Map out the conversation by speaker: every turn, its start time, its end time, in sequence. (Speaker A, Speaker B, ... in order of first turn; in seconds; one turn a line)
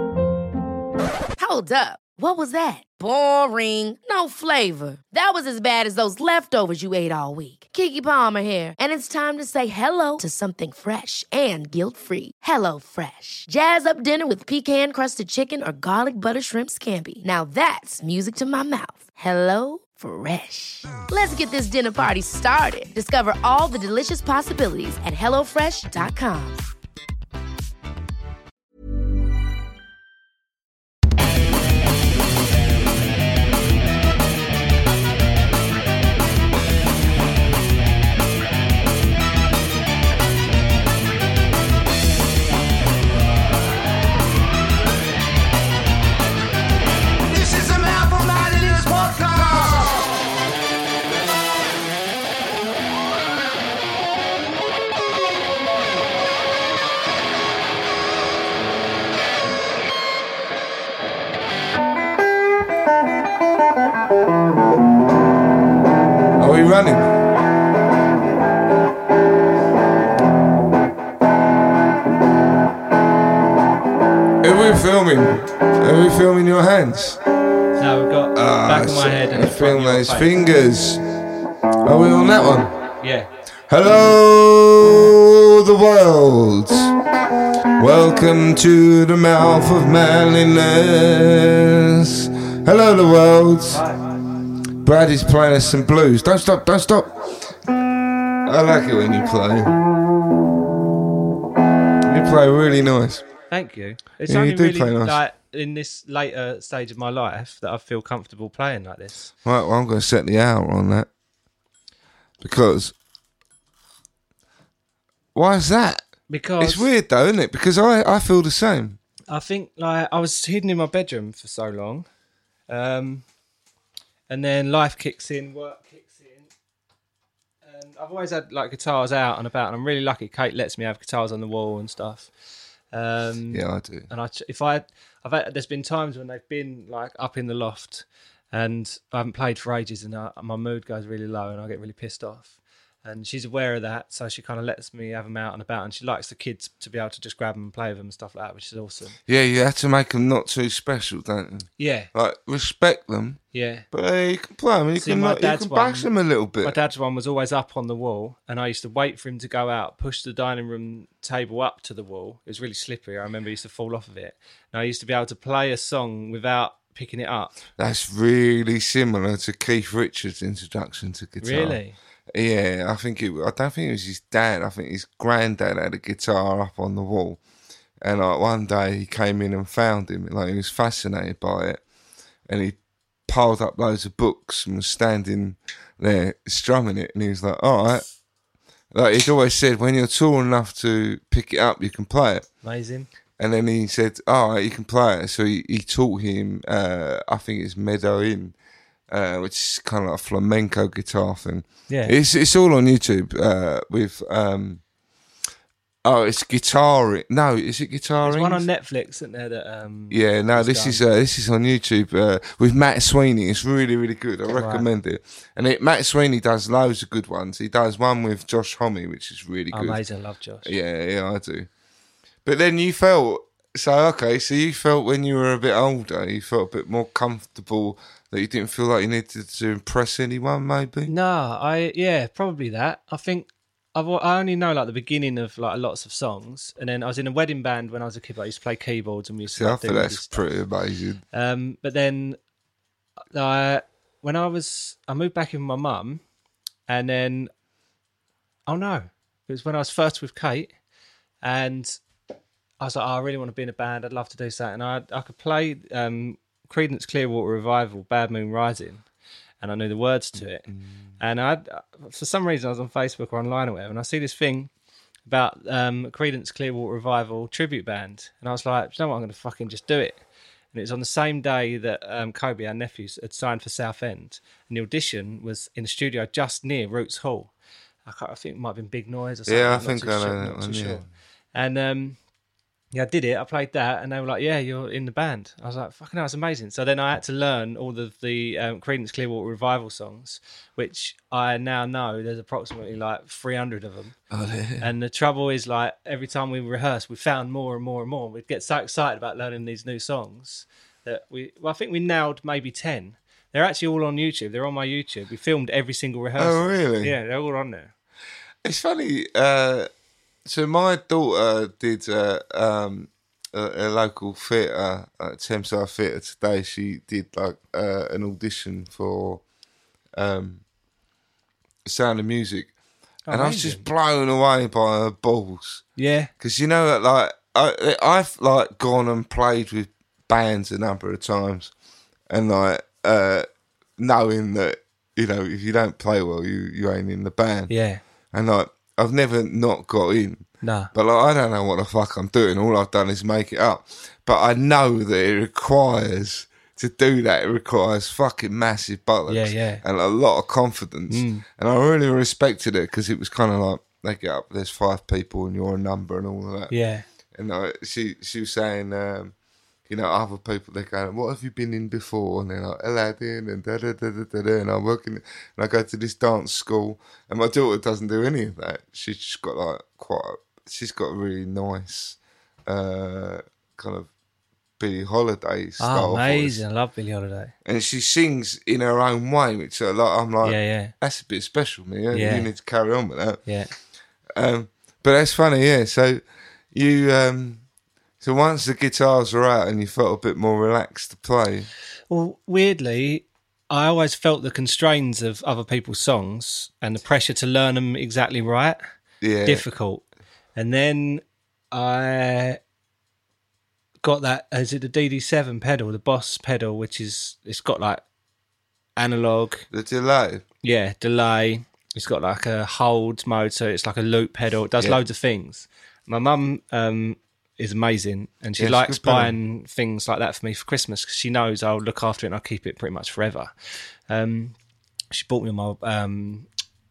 Speaker A: 1.4-26.6
Speaker B: 47.5-49.8
Speaker C: 66.4-67.2
Speaker C: 74.4-77.2
Speaker B: 77.8-80.4
Speaker C: 78.3-81.0
Speaker C: 81.8-82.8
Speaker B: 83.0-83.3
Speaker C: 83.7-87.0
Speaker C: 87.8-93.8
Speaker C: 94.8-97.5
Speaker C: 98.5-99.8
Speaker C: 102.0-103.3
Speaker B: 103.5-109.3
Speaker C: 104.3-105.2
Speaker C: 109.5-111.1
Speaker C: 112.4-113.0
Speaker C: 115.3-116.1
Speaker B: 116.3-116.9
Speaker C: 116.6-119.0
Speaker B: 119.3-122.1
Speaker B: 122.7-123.2
Speaker B: 124.3-126.5
Speaker B: 127.6-132.3
Speaker B: 132.9-149.2
Speaker C: 133.5-134.1
Speaker C: 149.3-153.4
Speaker B: 151.8-152.1
Speaker B: 153.5-153.9
Speaker C: 153.9-156.8
Speaker B: 155.0-156.1
Speaker B: 156.6-167.6
Speaker C: 167.8-171.8
Speaker B: 171.4-172.0
Speaker C: 172.3-177.4
Speaker C: 178.0-181.8
Speaker C: 182.5-188.1
Speaker C: 188.9-192.5
Speaker B: 192.6-193.1
Speaker C: 193.4-198.6
Speaker C: 199.1-204.8
Speaker B: 201.9-202.2
Speaker C: 206.0-208.7
Speaker B: 208.2-211.0
Speaker C: 210.1-220.0
Speaker B: 214.5-214.9
Speaker B: 219.7-220.7
Speaker C: 220.6-221.7
Speaker C: 222.4-231.1
Speaker B: 231.1-240.4
Speaker C: 239.5-241.2
Speaker B: 241.3-242.4
Speaker B: 243.3-246.2
Speaker B: 246.9-247.5
Speaker B: 248.7-250.7
Speaker B: 251.4-252.0
Speaker B: 252.8-259.1
Speaker B: 259.6-260.7
Speaker B: 261.2-264.7
Speaker B: 265.3-270.2
Speaker B: 270.7-277.5
Speaker B: 278.1-282.2
Speaker C: 279.5-281.1
Speaker B: 282.9-294.2
Speaker C: 294.3-294.9
Speaker B: 294.8-307.9
Speaker C: 306.4-307.1
Speaker C: 308.6-309.9
Speaker C: 310.4-319.4
Speaker C: 320.2-320.6
Speaker C: 321.9-322.7
Speaker B: 323.3-323.9
Speaker C: 323.3-325.9
Speaker B: 326.0-326.3
Speaker C: 326.4-331.7
Speaker C: 332.3-337.7
Speaker B: 337.7-338.0
Speaker C: 338.3-356.7
Speaker B: 340.6-340.9
Speaker B: 349.3-349.8
Speaker B: 351.1-351.4
Speaker B: 356.7-357.1
Speaker C: 357.3-359.3
Speaker C: 359.9-374.1
Speaker C: 374.8-376.6
Speaker B: 375.8-377.5
Speaker C: 377.6-383.4
Speaker B: 380.4-380.9
Speaker B: 382.1-382.5
Speaker B: 383.5-383.7
Speaker C: 384.4-387.6
Speaker C: 388.2-391.7
Speaker B: 392.1-398.8
Speaker C: 399.2-399.6
Speaker B: 399.5-402.6
Speaker B: 404.0-408.0
Speaker B: 409.0-409.7
Speaker C: 409.7-410.4
Speaker B: 410.6-423.5
Speaker C: 418.6-419.4
Speaker B: 424.1-424.6
Speaker B: 425.1-426.5